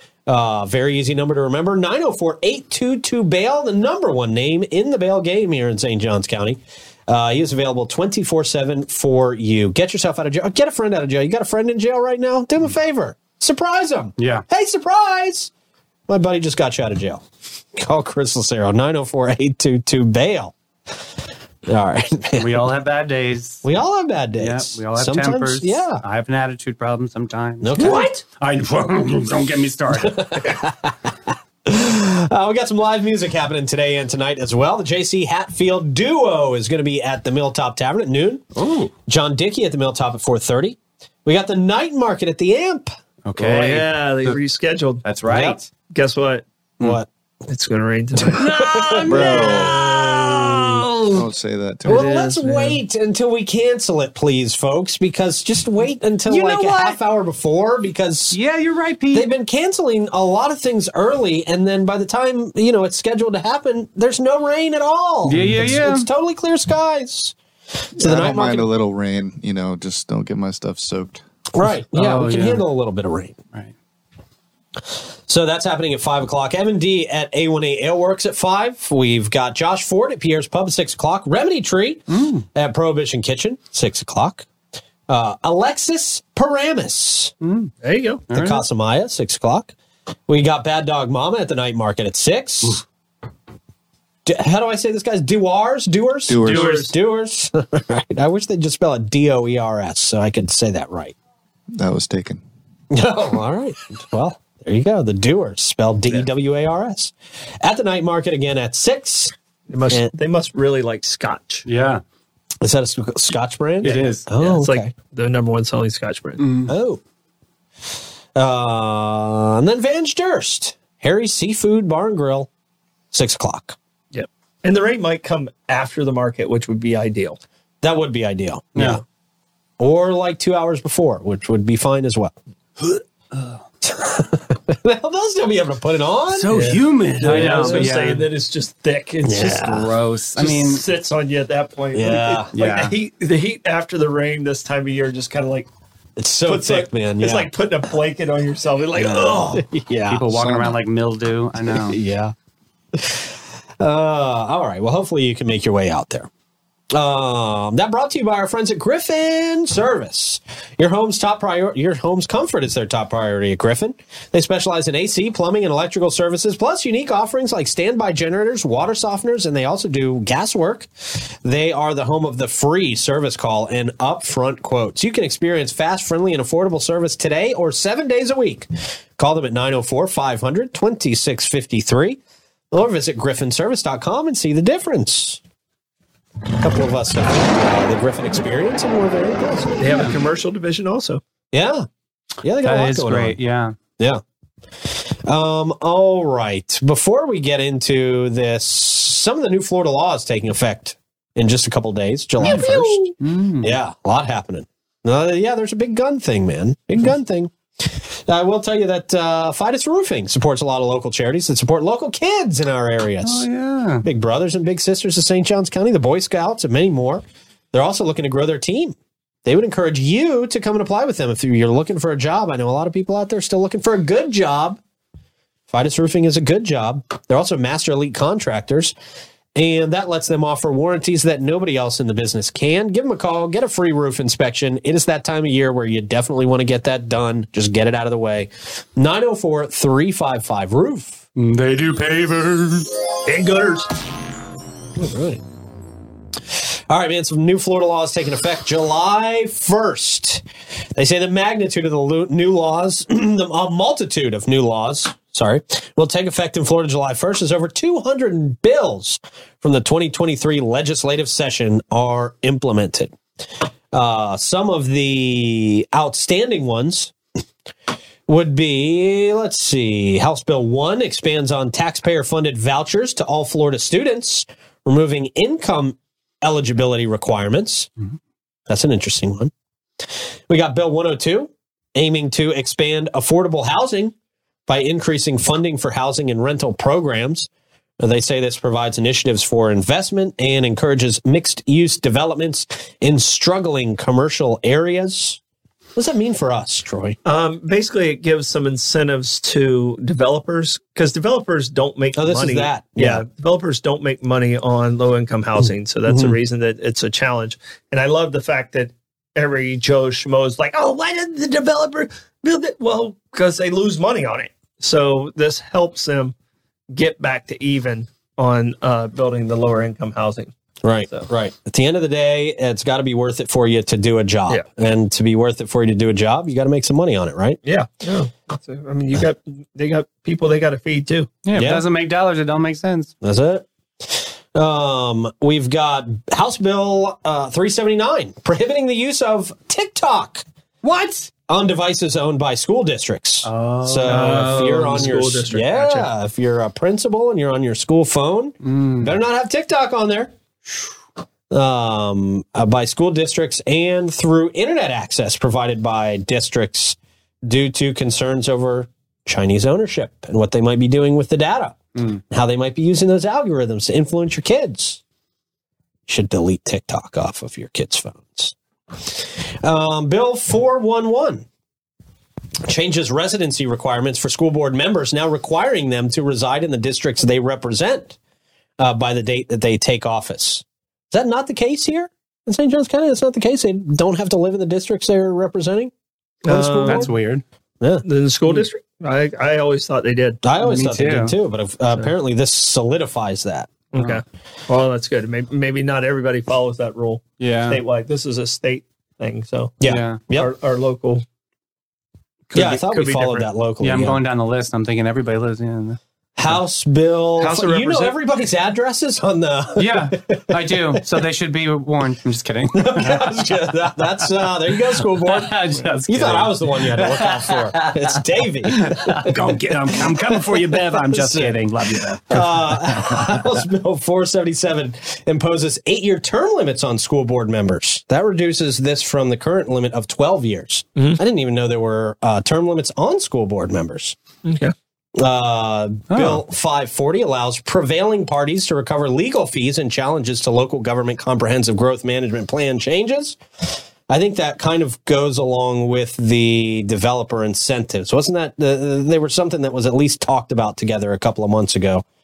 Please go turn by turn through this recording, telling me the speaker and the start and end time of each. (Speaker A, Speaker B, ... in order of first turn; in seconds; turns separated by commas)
Speaker A: 0.3-15.5, Speaker B: 14.2-14.4, Speaker A: 16.1-20.6, Speaker A: 21.7-22.7, Speaker B: 22.4-23.6, Speaker A: 23.6-26.0, Speaker B: 24.4-30.5, Speaker A: 27.6-28.2, Speaker C: 27.8-28.1, Speaker A: 30.1-31.1, Speaker A: 31.6-38.5, Speaker B: 38.5-38.9, Speaker A: 39.0-42.9, Speaker B: 43.2-44.4, Speaker C: 43.4-45.0, Speaker B: 45.0-45.7, Speaker A: 45.3-45.6, Speaker C: 45.9-46.4, Speaker A: 46.8-47.1, Speaker C: 47.5-48.6, Speaker A: 48.3-51.2, Speaker B: 48.4-49.8, Speaker D: 49.1-49.8, Speaker D: 51.1-52.1, Speaker A: 51.9-58.4, Speaker B: 51.9-52.8, Speaker B: 56.3-57.0, Speaker B: 58.3-59.3, Speaker A: 59.1-68.7, Speaker B: 65.3-66.1, Speaker D: 68.0-71.2, Speaker A: 71.5-73.4, Speaker B: 71.9-72.7, Speaker A: 75.3-84.5, Speaker B: 82.1-82.5, Speaker A: 85.1-87.3, Speaker B: 87.4-87.7, Speaker C: 87.8-88.2, Speaker B: 88.3-88.6, Speaker A: 88.3-89.7, Speaker A: 90.3-92.8, Speaker A: 94.2-101.2, Speaker D: 96.3-96.8, Speaker C: 96.4-96.9, Speaker D: 101.7-102.4, Speaker A: 102.9-109.3, Speaker C: 109.7-111.7, Speaker B: 111.7-112.0, Speaker A: 112.6-114.9, Speaker B: 113.8-114.3, Speaker C: 114.3-116.5, Speaker B: 116.4-116.7, Speaker A: 116.7-117.0, Speaker A: 118.3-122.5, Speaker A: 123.1-123.8, Speaker C: 124.1-127.4, Speaker A: 127.8-129.0, Speaker B: 128.8-129.0, Speaker A: 129.8-132.3, Speaker B: 132.9-133.6, Speaker A: 133.8-136.5, Speaker B: 136.3-138.3, Speaker C: 136.5-145.7, Speaker A: 137.2-137.9, Speaker A: 139.2-139.9, Speaker B: 139.6-140.9, Speaker A: 141.9-142.5, Speaker B: 142.5-143.0, Speaker A: 146.2-147.5, Speaker C: 146.5-149.7, Speaker B: 148.9-149.5, Speaker A: 149.3-150.7, Speaker B: 150.1-152.0, Speaker A: 151.8-152.3, Speaker A: 152.9-156.3, Speaker A: 156.9-182.2, Speaker A: 182.7-185.4, Speaker A: 186.6-189.8, Speaker C: 189.8-191.2, Speaker A: 191.5-191.9, Speaker A: 192.4-193.4, Speaker B: 192.6-193.8, Speaker A: 194.8-213.5, Speaker B: 202.4-203.8, Speaker B: 213.2-214.1, Speaker A: 214.0-224.8, Speaker A: 225.7-228.9, Speaker A: 229.6-241.2, Speaker B: 241.4-243.0, Speaker C: 243.2-243.9, Speaker A: 245.0-245.4, Speaker A: 246.5-263.2, Speaker A: 263.9-267.1, Speaker A: 268.3-277.9, Speaker A: 278.7-279.5, Speaker A: 280.5-284.1, Speaker A: 284.7-287.5, Speaker A: 288.0-295.4, Speaker A: 296.0-297.2, Speaker C: 297.2-316.4, Speaker A: 302.2-303.2, Speaker A: 306.1-306.4, Speaker C: 316.9-320.5, Speaker A: 320.8-327.6, Speaker C: 327.6-331.3, Speaker B: 331.4-333.1, Speaker A: 331.5-331.8, Speaker A: 333.2-340.4, Speaker B: 340.8-341.3, Speaker A: 341.4-350.3, Speaker B: 343.4-345.0, Speaker C: 344.0-346.1, Speaker B: 348.6-349.1, Speaker A: 351.5-365.0, Speaker A: 366.1-371.5, Speaker A: 372.6-378.2, Speaker A: 378.8-385.9, Speaker C: 386.4-387.1, Speaker A: 386.5-387.1, Speaker B: 386.9-387.4, Speaker C: 388.0-390.4, Speaker A: 390.4-393.7, Speaker B: 390.6-391.4, Speaker C: 393.9-399.8, Speaker B: 397.4-397.8, Speaker A: 399.8-400.5, Speaker B: 399.8-400.2, Speaker C: 400.3-401.2, Speaker C: 402.5-403.5, Speaker A: 402.5-404.2, Speaker B: 403.8-406.0, Speaker A: 406.4-411.0, Speaker C: 407.4-408.2, Speaker B: 409.8-413.5, Speaker A: 412.7-415.6, Speaker B: 414.7-423.4, Speaker A: 416.1-419.3, Speaker A: 420.3-421.6, Speaker A: 422.3-434.2, Speaker C: 434.4-434.7, Speaker A: 435.1-452.0, Speaker B: 436.1-436.4